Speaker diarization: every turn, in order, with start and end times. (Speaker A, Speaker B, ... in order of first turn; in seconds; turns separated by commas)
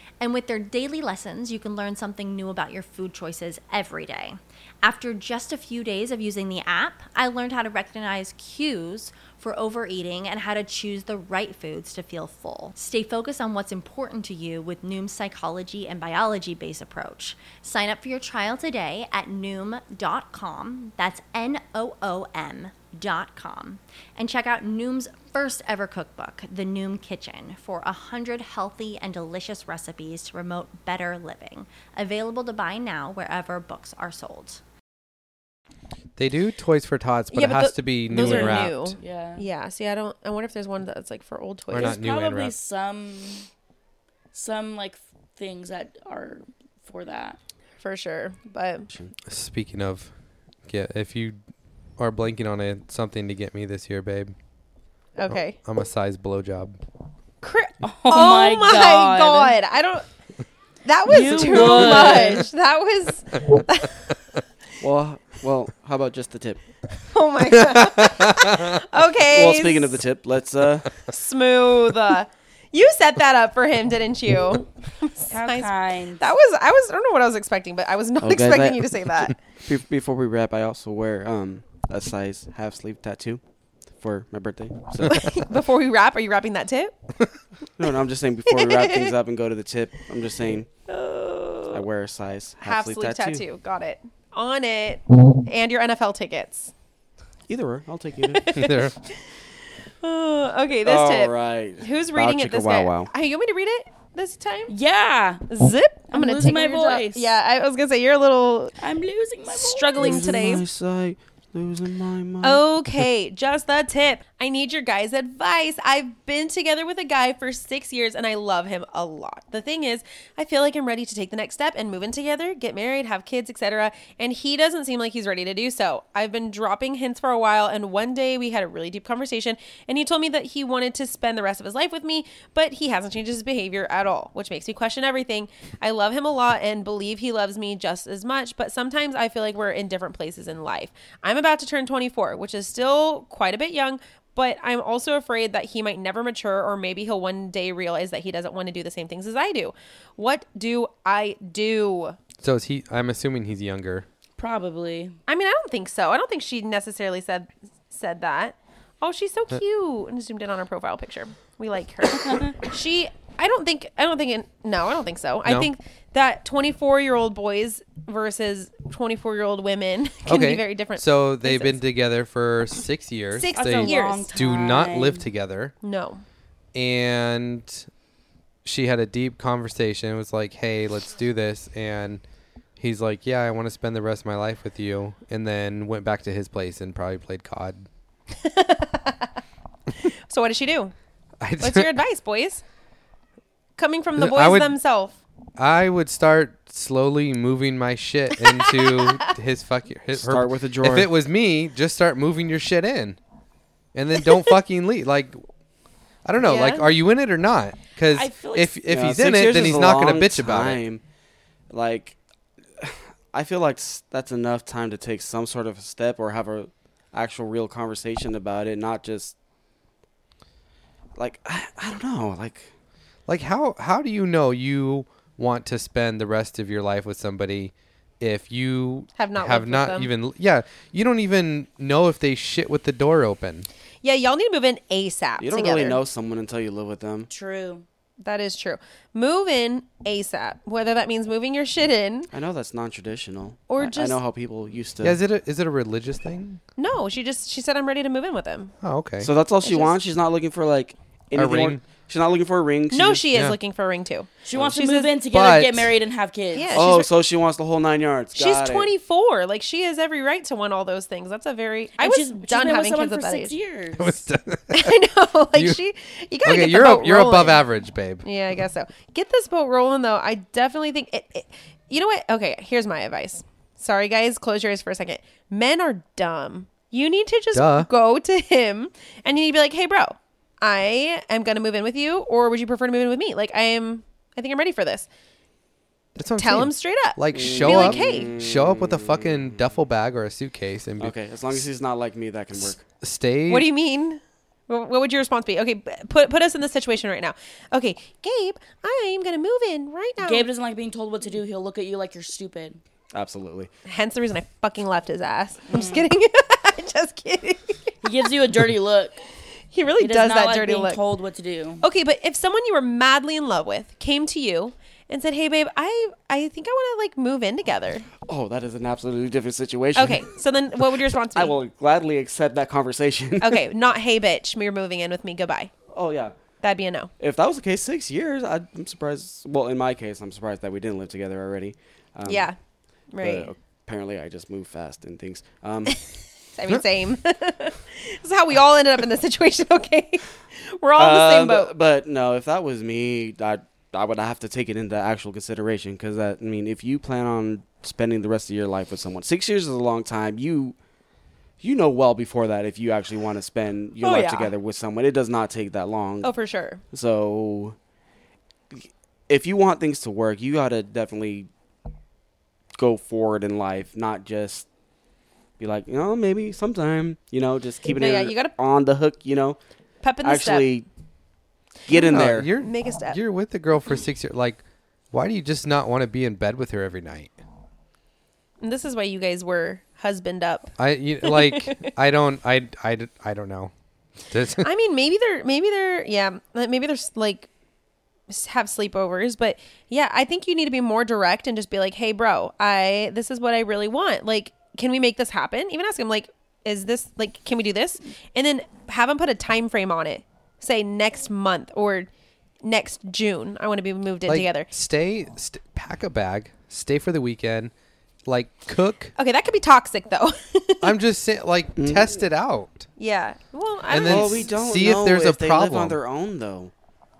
Speaker A: 0.2-34.6, Speaker B: 36.2-39.0, Speaker C: 37.3-42.0, Speaker D: 38.1-39.5, Speaker B: 41.7-42.5, Speaker D: 41.8-43.5, Speaker D: 44.3-47.4, Speaker C: 47.8-48.9, Speaker B: 49.3-50.1, Speaker B: 50.7-51.4, Speaker B: 52.0-54.3, Speaker C: 55.2-55.6, Speaker B: 55.3-56.8, Speaker C: 57.4-60.1, Speaker D: 57.8-59.6, Speaker C: 60.9-64.1, Speaker D: 61.1-62.5, Speaker E: 64.8-66.6, Speaker C: 67.0-70.0, Speaker B: 67.5-68.7, Speaker E: 69.3-70.9, Speaker C: 71.1-79.4, Speaker D: 75.3-76.3, Speaker E: 78.2-79.0, Speaker E: 79.6-83.4, Speaker E: 84.0-85.3, Speaker C: 85.0-86.9, Speaker E: 87.8-90.7, Speaker C: 88.5-89.1, Speaker C: 90.9-91.8, Speaker E: 91.7-93.4, Speaker C: 92.6-96.7, Speaker E: 97.5-98.7, Speaker C: 98.3-99.4, Speaker B: 98.5-98.9, Speaker C: 100.0-104.8, Speaker E: 100.8-103.1, Speaker D: 104.7-105.5, Speaker C: 105.5-108.8, Speaker D: 106.1-107.3, Speaker D: 108.8-110.3, Speaker C: 109.5-110.6, Speaker E: 110.0-112.6, Speaker C: 112.4-152.2, Speaker B: 152.4-154.1, Speaker D: 154.4-155.2, Speaker C: 155.3-171.8, Speaker D: 162.3-162.5, Speaker B: 170.3-175.8, Speaker C: 173.3-174.3, Speaker D: 173.5-175.3, Speaker C: 175.8-176.2, Speaker B: 176.7-177.9, Speaker B: 178.7-182.2, Speaker B: 182.8-187.9, Speaker C: 188.3-189.3, Speaker C: 190.3-190.9, Speaker B: 191.4-192.0, Speaker C: 191.6-192.6, Speaker C: 193.8-195.2, Speaker B: 194.2-194.8, Speaker B: 195.6-203.2, Speaker C: 198.4-199.3, Speaker E: 200.2-201.1, Speaker B: 203.9-205.4, Speaker B: 206.2-210.8, Speaker C: 206.4-206.9, Speaker D: 208.1-208.8, Speaker E: 208.9-211.0, Speaker E: 211.7-212.2, Speaker E: 212.8-219.4, Speaker E: 221.2-222.7, Speaker B: 223.3-233.7, Speaker C: 229.2-230.1, Speaker C: 234.0-236.0, Speaker E: 235.4-237.3, Speaker D: 237.3-237.8, Speaker C: 238.2-242.3, Speaker E: 242.3-245.2, Speaker C: 243.7-244.2, Speaker B: 245.0-246.6, Speaker C: 246.8-248.7, Speaker B: 248.8-249.3, Speaker E: 249.2-253.3, Speaker C: 249.6-249.9, Speaker B: 251.3-251.8, Speaker C: 252.9-255.2, Speaker D: 254.4-256.8, Speaker B: 255.3-255.9, Speaker C: 256.5-257.1, Speaker E: 256.8-258.9, Speaker C: 258.4-263.5, Speaker D: 262.0-264.3, Speaker B: 264.0-265.0, Speaker C: 264.7-267.7, Speaker B: 266.4-268.3, Speaker C: 268.2-285.1, Speaker B: 277.5-277.9, Speaker B: 286.2-291.6, Speaker C: 286.4-288.3, Speaker E: 287.3-289.7, Speaker E: 291.0-292.9, Speaker B: 292.6-293.7, Speaker C: 293.5-300.5, Speaker D: 300.2-302.8, Speaker E: 303.1-303.7, Speaker C: 303.9-308.0, Speaker D: 305.7-306.1, Speaker D: 308.0-309.2, Speaker C: 309.7-311.0, Speaker D: 310.0-311.8, Speaker C: 311.8-318.1, Speaker E: 318.3-320.3, Speaker C: 320.0-321.6, Speaker E: 320.9-323.6, Speaker C: 323.4-325.7, Speaker E: 325.9-326.4, Speaker C: 326.6-327.1, Speaker E: 327.2-332.5, Speaker C: 332.2-332.6, Speaker C: 333.1-333.5, Speaker E: 333.2-336.0, Speaker C: 336.5-341.7, Speaker E: 341.0-350.8, Speaker E: 351.6-356.3, Speaker C: 354.0-354.6, Speaker C: 356.2-356.8, Speaker E: 356.9-357.8, Speaker E: 358.7-361.5, Speaker E: 362.8-364.7, Speaker E: 365.6-369.6, Speaker C: 367.9-368.5, Speaker C: 370.0-370.7, Speaker E: 370.2-370.9, Speaker E: 371.9-372.5, Speaker C: 371.9-373.2, Speaker B: 372.0-374.6, Speaker B: 375.1-377.4, Speaker C: 378.6-381.8, Speaker B: 380.8-383.7, Speaker B: 384.3-384.7, Speaker C: 384.6-387.5, Speaker C: 388.3-402.1, Speaker C: 402.6-404.7, Speaker B: 404.3-407.7, Speaker B: 408.3-409.1, Speaker C: 409.2-410.9, Speaker B: 410.8-412.9, Speaker E: 411.8-412.3, Speaker C: 413.0-414.5, Speaker B: 413.9-416.0, Speaker E: 414.1-416.7